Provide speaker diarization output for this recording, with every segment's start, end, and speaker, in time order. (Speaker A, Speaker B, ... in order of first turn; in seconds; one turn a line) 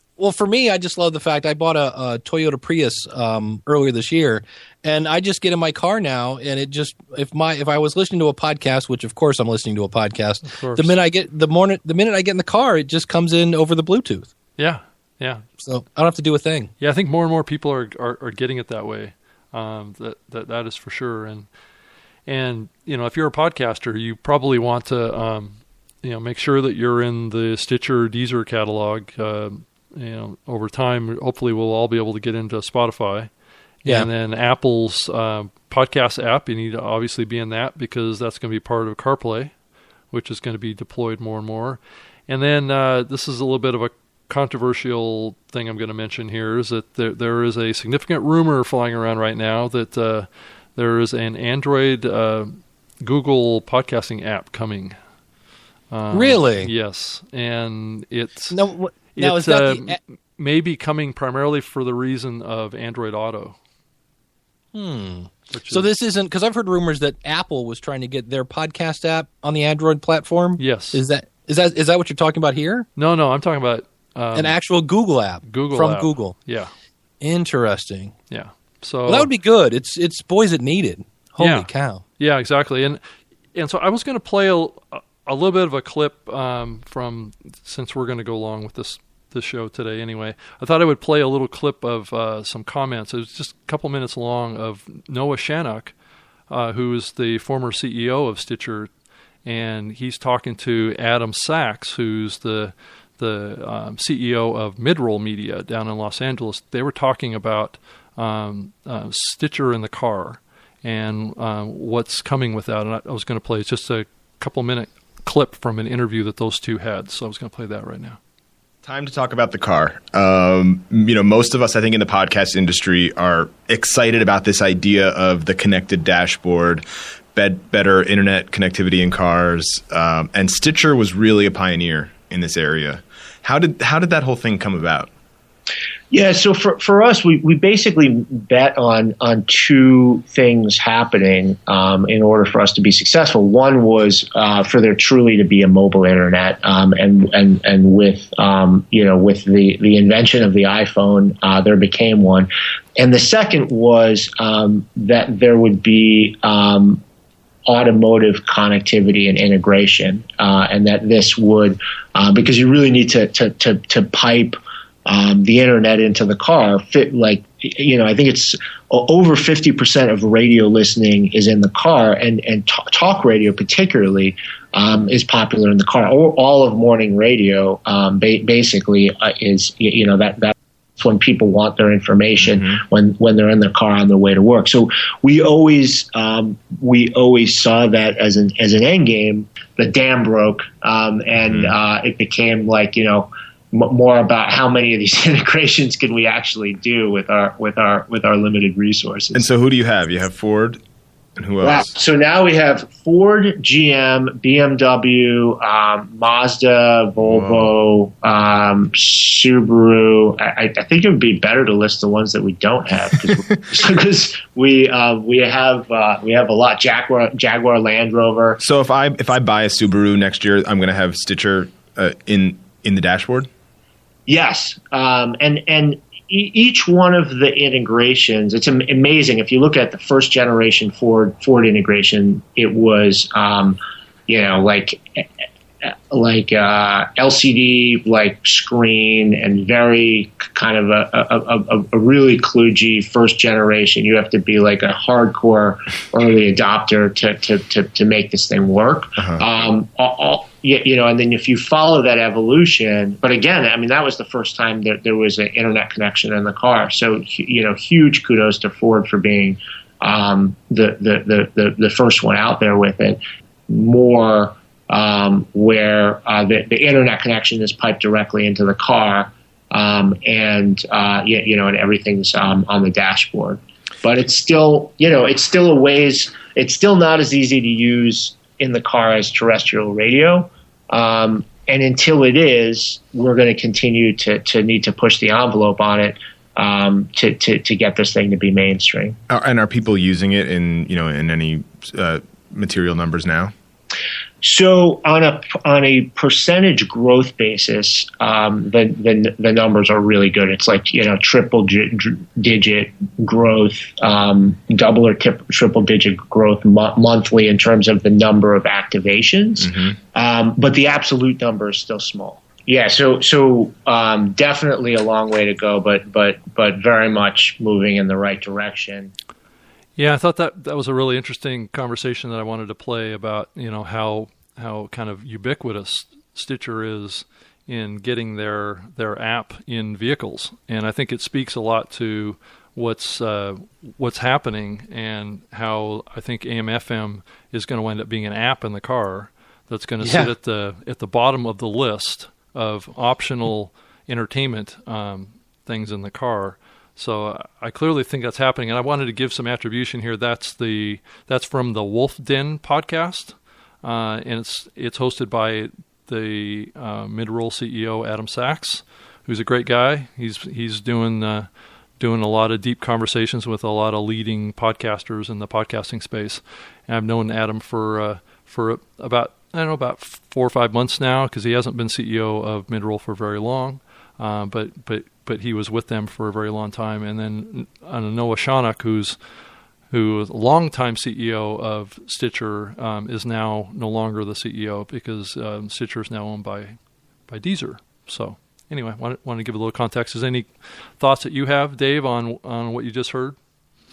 Speaker A: 0.2-14.3
Speaker B: 10.4-11.0
Speaker B: 14.6-15.5
Speaker A: 15.6-16.7
Speaker B: 16.8-21.5
Speaker B: 22.3-33.3
Speaker B: 33.8-39.5
Speaker B: 40.1-55.0
Speaker B: 55.9-58.6
Speaker A: 56.1-56.7
Speaker A: 58.5-60.0
Speaker B: 59.1-63.5
Speaker A: 64.7-72.9
Speaker B: 65.5-65.9
Speaker B: 70.6-71.0
Speaker B: 73.0-74.6
Speaker A: 74.3-76.4
Speaker B: 75.5-76.7
Speaker A: 77.2-78.1
Speaker B: 78.3-79.3
Speaker A: 79.1-82.0
Speaker B: 81.4-83.0
Speaker B: 83.5-95.9
Speaker B: 96.5-98.9
Speaker B: 99.5-118.2
Speaker C: 118.8-135.1
Speaker D: 136.1-157.0
Speaker D: 157.7-199.4
Speaker C: 182.5-182.8
Speaker C: 191.4-191.7
Speaker C: 199.3-200.8
Speaker C: 201.4-201.9
Speaker D: 201.6-218.6
Speaker C: 207.2-207.7
Speaker C: 218.6-223.5
Speaker D: 224.3-235.2
Speaker D: 236.1-289.2
Speaker C: 289.3-293.5
Speaker D: 294.4-319.1
Speaker B: 320.0-361.5
Speaker A: 340.0-340.3
Speaker B: 362.0-379.2
Speaker B: 379.9-386.8
Speaker B: 387.3-393.4